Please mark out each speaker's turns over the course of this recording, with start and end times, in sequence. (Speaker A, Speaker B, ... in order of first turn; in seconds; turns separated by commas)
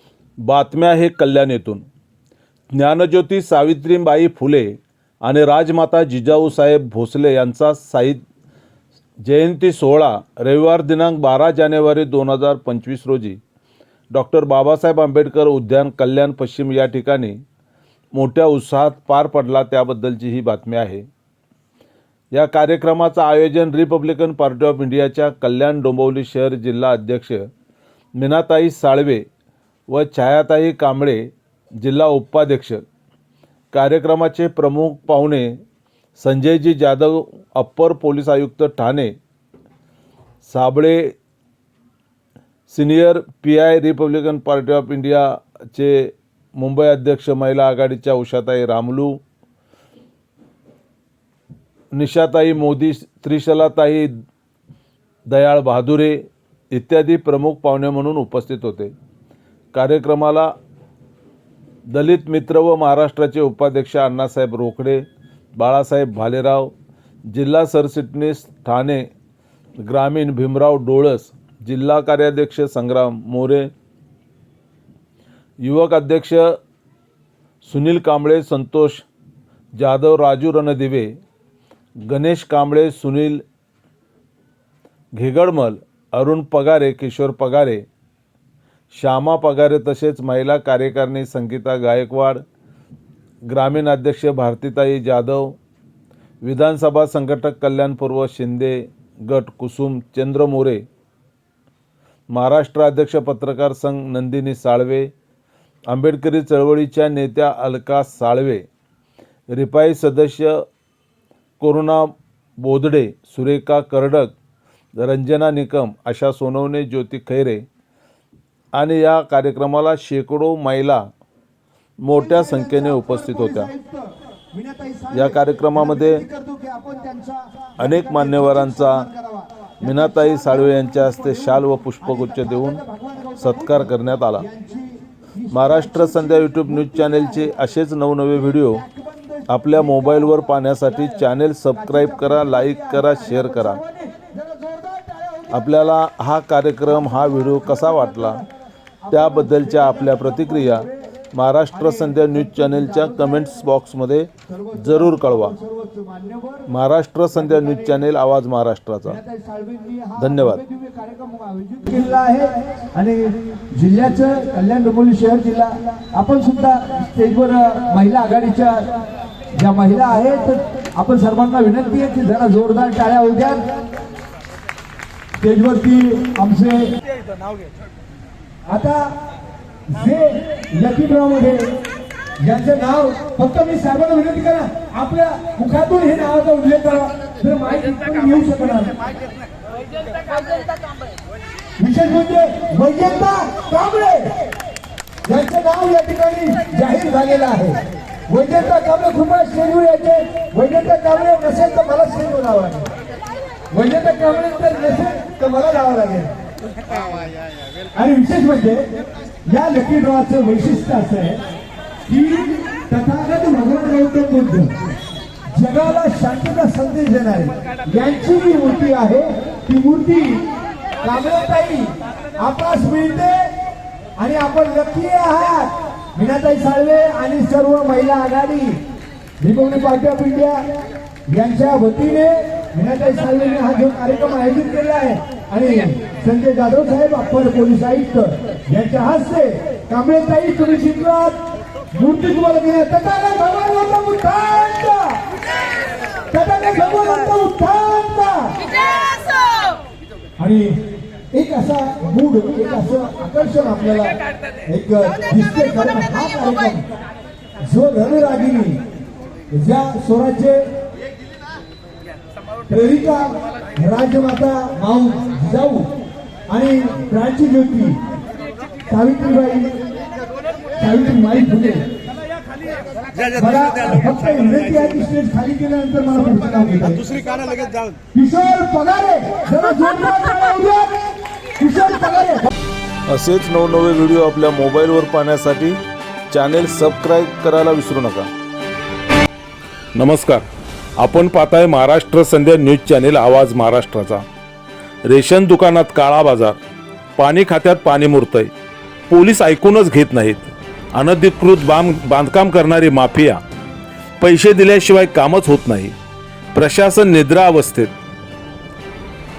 Speaker A: 0.4-1.9, Speaker A: 2.7-8.2, Speaker A: 9.2-13.4, Speaker A: 14.1-17.4, Speaker A: 18.1-21.1, Speaker A: 22.3-27.5, Speaker A: 28.1-29.3, Speaker A: 29.9-32.8, Speaker A: 33.7-35.6, Speaker A: 36.2-39.1, Speaker A: 40.4-41.1, Speaker A: 42.7-49.2, Speaker A: 51.9-54.1, Speaker A: 55.3-58.9, Speaker A: 59.7-60.5, Speaker A: 61.9-66.7, Speaker A: 67.3-69.1, Speaker A: 69.8-73.7, Speaker A: 75.6-76.6, Speaker A: 77.6-79.1, Speaker A: 79.8-81.1, Speaker A: 82.0-83.4, Speaker A: 85.1-87.9, Speaker A: 88.9-92.4, Speaker A: 93.5-95.6, Speaker A: 96.4-100.8, Speaker A: 102.3-105.1, Speaker A: 105.9-108.7, Speaker A: 109.5-110.6, Speaker A: 111.6-114.3, Speaker A: 114.9-117.7, Speaker A: 118.7-121.1, Speaker A: 122.0-123.7, Speaker B: 122.2-137.5, Speaker A: 125.1-126.2, Speaker A: 127.8-129.0, Speaker A: 129.8-132.8, Speaker A: 133.4-134.4, Speaker A: 135.5-138.8, Speaker B: 138.8-139.8, Speaker A: 139.5-143.8, Speaker B: 141.8-145.5, Speaker A: 145.5-148.4, Speaker B: 147.9-148.3, Speaker A: 149.1-155.5, Speaker B: 149.4-150.8, Speaker B: 154.5-156.7, Speaker A: 156.7-159.2, Speaker B: 159.1-168.9, Speaker A: 160.2-160.6, Speaker B: 169.5-173.6, Speaker B: 175.4-176.9, Speaker B: 178.7-179.2, Speaker B: 179.9-181.7, Speaker B: 182.4-189.0, Speaker B: 191.8-194.3, Speaker B: 195.2-202.9, Speaker B: 203.7-206.3, Speaker B: 207.9-208.8, Speaker B: 209.5-211.4, Speaker B: 212.1-214.8, Speaker B: 215.5-220.4, Speaker B: 221.0-223.5, Speaker B: 224.2-228.8, Speaker B: 229.4-230.7, Speaker B: 231.3-241.4, Speaker B: 241.9-245.2, Speaker B: 246.3-248.6, Speaker B: 250.4-250.8, Speaker B: 251.3-254.2, Speaker B: 254.7-256.9, Speaker B: 257.6-258.8, Speaker B: 259.5-260.7, Speaker B: 262.7-265.9, Speaker B: 266.5-268.0, Speaker B: 268.9-269.8, Speaker B: 270.8-271.9, Speaker B: 273.3-277.1, Speaker B: 278.1-282.5, Speaker A: 283.1-285.8, Speaker A: 286.3-288.3, Speaker A: 289.9-290.4, Speaker A: 291.0-294.2, Speaker A: 295.1-296.6, Speaker A: 297.2-298.5, Speaker A: 299.1-303.4, Speaker A: 304.2-305.9, Speaker A: 306.5-307.9